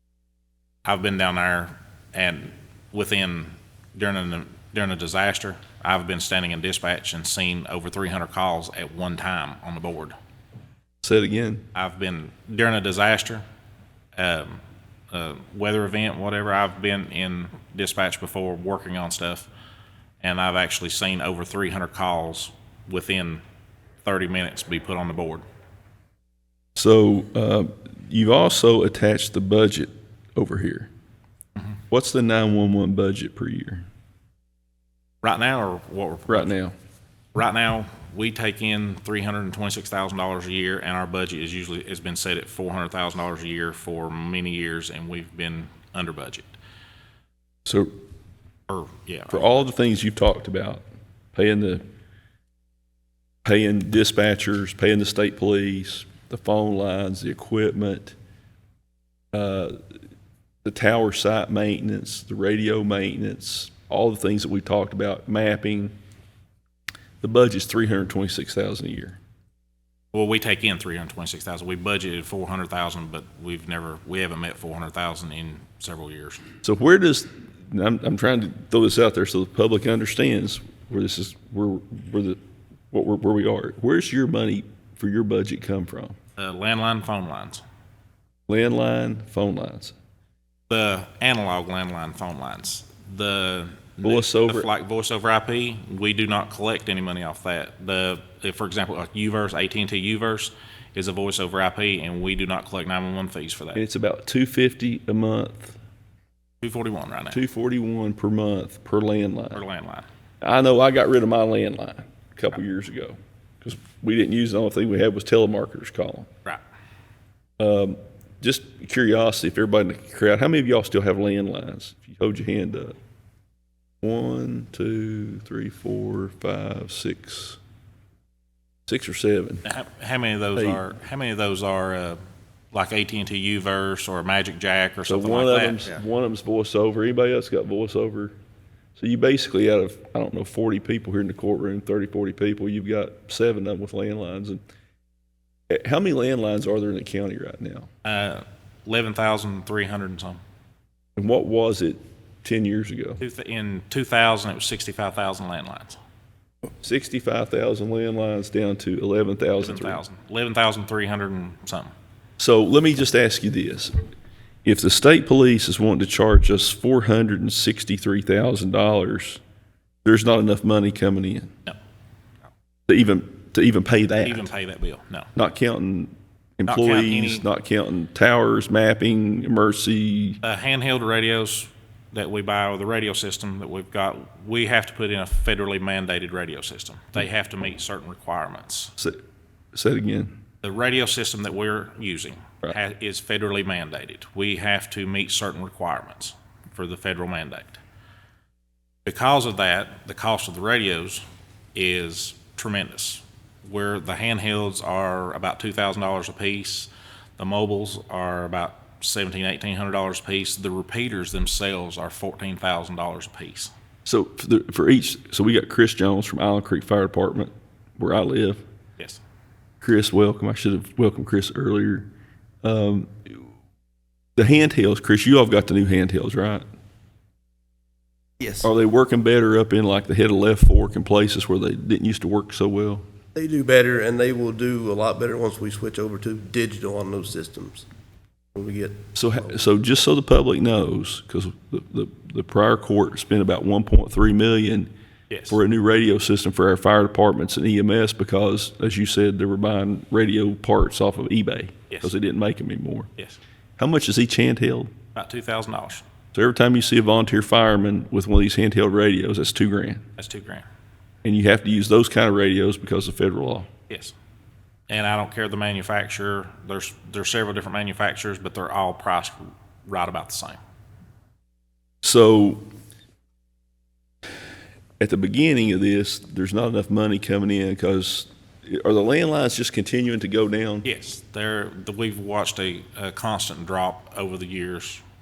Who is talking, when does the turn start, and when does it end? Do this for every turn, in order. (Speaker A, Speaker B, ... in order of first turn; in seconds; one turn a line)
Speaker A: 0.8-10.1
Speaker B: 11.0-11.7
Speaker A: 11.7-13.4
Speaker A: 14.2-19.5
Speaker A: 20.2-23.4
Speaker A: 24.0-25.4
Speaker B: 26.8-30.9
Speaker B: 31.9-33.9
Speaker A: 35.2-36.5
Speaker B: 36.3-36.7
Speaker A: 37.3-46.5
Speaker B: 47.6-47.9
Speaker A: 48.7-49.6
Speaker B: 49.3-50.8
Speaker B: 51.3-51.8
Speaker B: 53.4-58.2
Speaker B: 59.3-59.8
Speaker B: 60.6-65.9
Speaker B: 67.2-69.2
Speaker A: 70.1-76.4
Speaker B: 76.6-82.4
Speaker B: 82.9-86.2
Speaker A: 86.4-87.6
Speaker B: 88.5-89.9
Speaker A: 90.7-103.8
Speaker B: 94.0-94.7
Speaker B: 103.8-105.8
Speaker A: 106.6-107.4
Speaker B: 107.3-109.6
Speaker A: 109.5-110.0
Speaker B: 110.4-116.3
Speaker B: 117.6-123.0
Speaker B: 124.0-127.6
Speaker B: 128.9-129.7
Speaker A: 129.7-132.2
Speaker B: 130.6-130.8
Speaker A: 132.7-135.8
Speaker B: 135.1-138.3
Speaker B: 139.0-144.6
Speaker B: 145.7-147.9
Speaker A: 148.0-150.4
Speaker B: 151.2-153.2
Speaker A: 153.2-156.0
Speaker B: 156.8-160.0
Speaker A: 159.6-161.9
Speaker B: 162.4-163.9
Speaker B: 164.7-169.4
Speaker B: 170.1-171.5
Speaker B: 172.9-174.5
Speaker A: 174.2-175.3
Speaker B: 175.3-180.4
Speaker A: 176.7-177.5
Speaker A: 180.4-188.9
Speaker B: 189.7-190.3
Speaker A: 190.6-197.8
Speaker A: 199.1-201.2
Speaker A: 201.8-213.7
Speaker B: 214.1-218.6
Speaker B: 219.8-222.1
Speaker B: 222.6-223.4
Speaker B: 224.4-226.7
Speaker B: 228.6-233.0
Speaker C: 233.3-237.8
Speaker C: 238.6-239.1
Speaker B: 239.2-244.9
Speaker A: 245.3-245.6
Speaker B: 245.5-253.1
Speaker B: 253.8-254.9
Speaker A: 255.2-256.1
Speaker B: 256.3-260.1
Speaker A: 260.2-260.6
Speaker B: 261.2-263.7
Speaker A: 263.9-264.1
Speaker A: 264.9-270.6
Speaker B: 272.0-272.7
Speaker B: 275.0-280.9
Speaker A: 280.8-285.0